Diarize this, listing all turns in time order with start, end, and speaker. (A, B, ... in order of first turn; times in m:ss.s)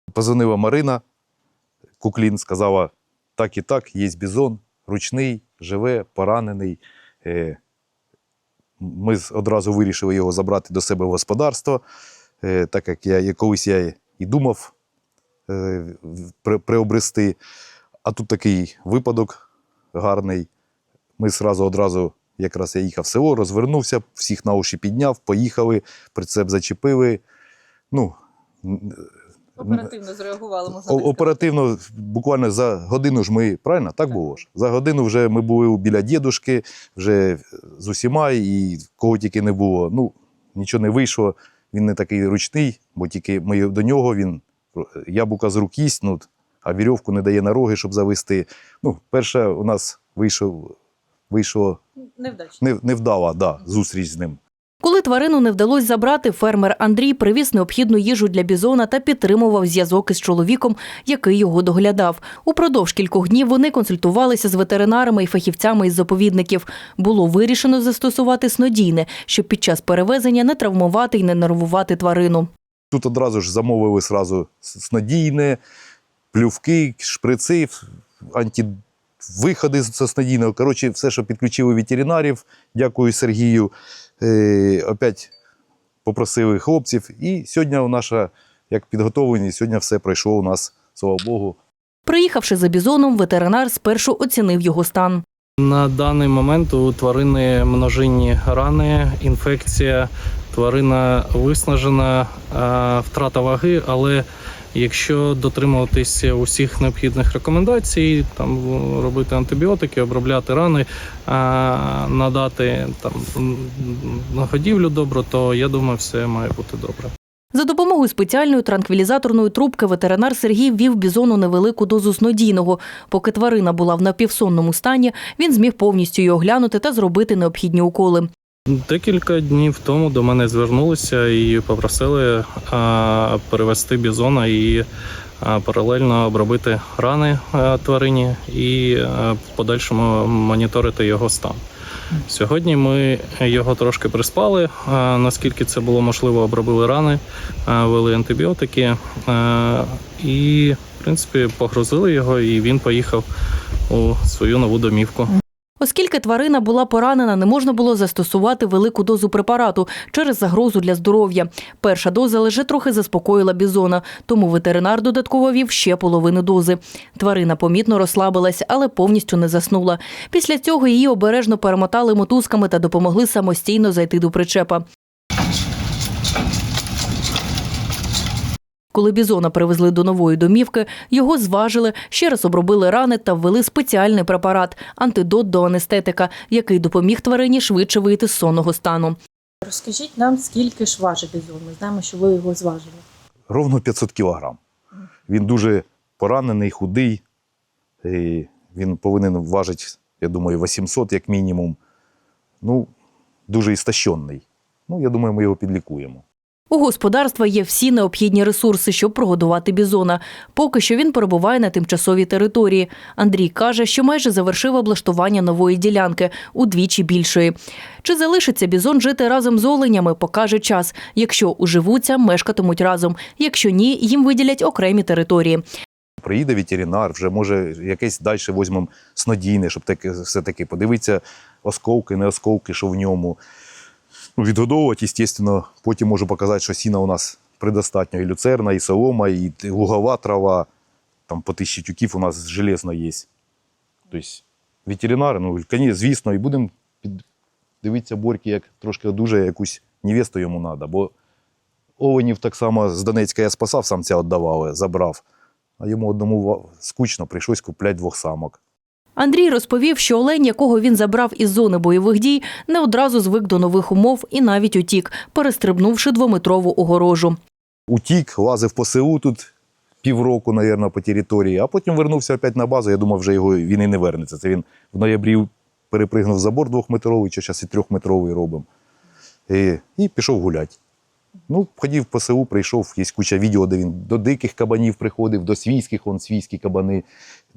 0:00.1-0:01.0 A
0:02.0-0:07.6 A
0:08.8-0:11.8 A
0:12.4-0:14.7 A
0:15.5-0:17.4 A
0:18.0-0:20.5 A
0:21.2-0:27.2 A
0:27.9-0:29.0 A
0:29.6-0:29.8 A
0:29.7-0:31.3 B
0:30.7-0:50.8 A
0:51.3-0:51.8 A
0:52.5-0:54.4 A
0:54.8-1:12.5 C
1:12.9-1:15.6 A
1:16.3-1:25.3 A
1:26.0-1:31.6 A
1:32.1-1:35.2 C
1:35.6-1:57.1 D
1:57.5-2:08.3 C
2:08.7-2:14.9 D
2:15.4-2:21.6 D
2:22.2-2:33.3 D
2:33.9-2:35.4 D
2:35.8-2:54.8 C
2:58.9-3:09.2 C
3:09.6-3:13.0 B
3:13.5-3:14.6 A
3:15.3-3:17.2 A
3:18.0-3:21.8 A
3:22.6-3:22.9 A
3:23.5-3:26.2 A
3:26.7-3:45.6 C
3:46.2-3:53.4 A
3:54.4-4:00.7 A
4:01.3-4:03.3 A
4:04.1-4:07.2 A
4:07.8-4:11.1 A
4:12.0-4:15.2 A
4:15.8-4:18.6 A
4:19.2-4:27.4 C
4:27.9-4:29.5 A
4:30.0-4:38.7 A
4:39.5-4:40.8 A
4:41.5-4:47.1 A